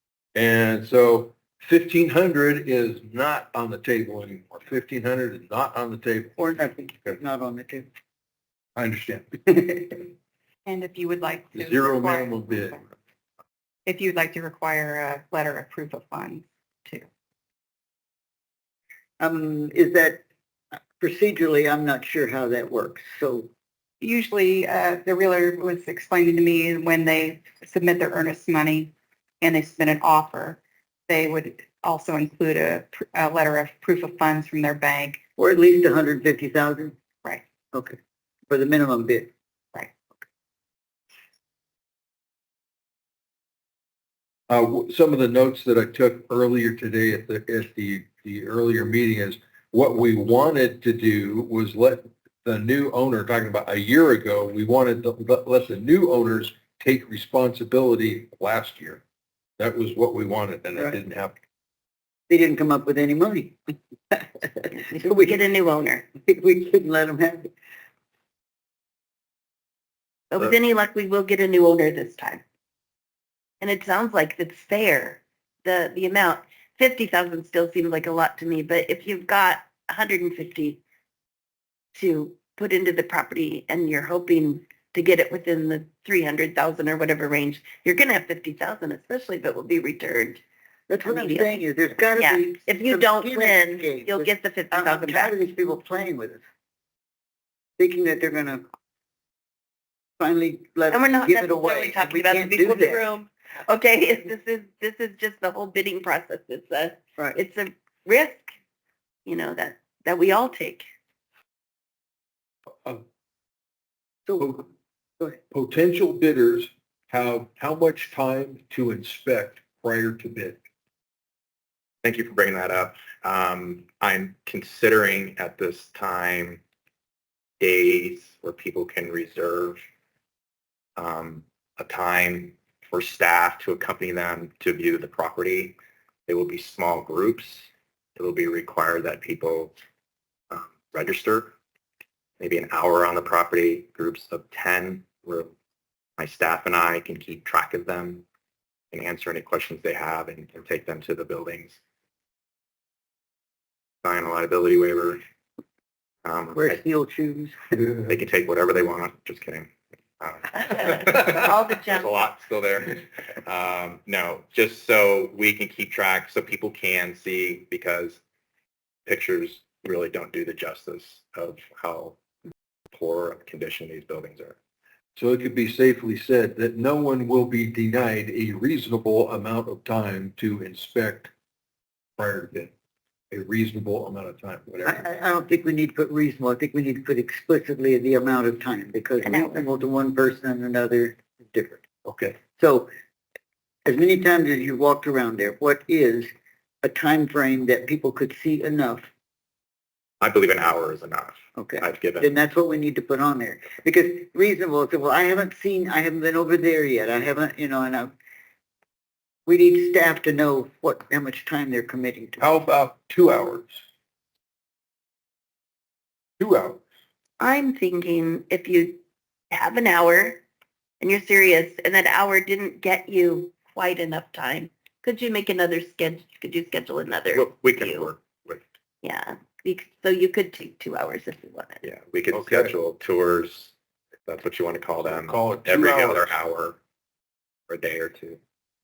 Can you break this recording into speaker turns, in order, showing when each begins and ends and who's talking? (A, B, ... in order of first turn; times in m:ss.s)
0:00.3-0:06.4 A
0:06.4-0:07.8 B
0:08.8-0:10.0 A
0:10.6-0:12.8 C
0:11.5-0:12.8 A
0:13.8-0:17.0 C
0:19.2-0:20.2 B
0:21.0-0:23.5 B
0:24.0-0:35.2 C
0:35.4-0:37.0 B
0:38.5-0:39.3 B
0:44.5-0:59.0 A
0:59.6-1:01.4 A
1:02.3-1:03.6 B
1:04.1-1:05.4 B
1:04.7-1:06.0 D
1:06.2-1:07.5 B
1:10.3-1:12.4 D
1:13.6-1:20.8 D
1:21.9-1:30.4 D
1:30.9-1:36.4 B
1:31.0-1:31.6 D
1:32.2-1:35.3 D
1:37.8-1:38.6 B
1:40.2-1:43.0 B
1:40.9-1:48.5 D
1:49.2-1:50.8 D
1:54.3-1:54.5 B
1:54.4-1:54.7 A
1:55.5-2:00.6 A
2:02.0-2:06.6 E
2:07.6-2:09.8 E
2:11.0-2:15.8 E
2:16.3-2:19.7 E
2:20.5-2:21.5 E
2:22.4-2:25.5 E
2:26.2-2:28.2 E
2:28.9-2:31.8 E
2:34.0-2:35.2 E
2:36.2-2:36.8 E
2:36.5-2:37.6 B
2:38.0-2:48.2 E
2:40.6-2:42.2 D
2:49.0-2:52.2 E
2:52.9-2:54.6 E
2:55.2-3:01.3 A
3:02.2-3:02.7 A
3:03.3-3:05.0 A
3:04.8-3:11.8 B
3:09.2-3:09.5 D
3:12.0-3:12.4 A
3:12.6-3:12.9 B
3:13.8-3:16.3 B
3:16.8-3:19.1 B
3:20.2-3:22.3 E
3:21.6-3:28.1 B
3:29.5-3:32.4 B
3:32.4-3:33.8 A
3:36.4-3:36.8 A
3:37.4-3:40.4 D
3:41.0-3:48.1 D
3:47.3-3:48.6 E
3:49.0-3:51.8 D
3:51.8-3:53.7 E
3:52.3-3:52.7 A
3:54.2-3:56.8 E
3:55.0-3:56.3 A
3:57.7-3:58.4 E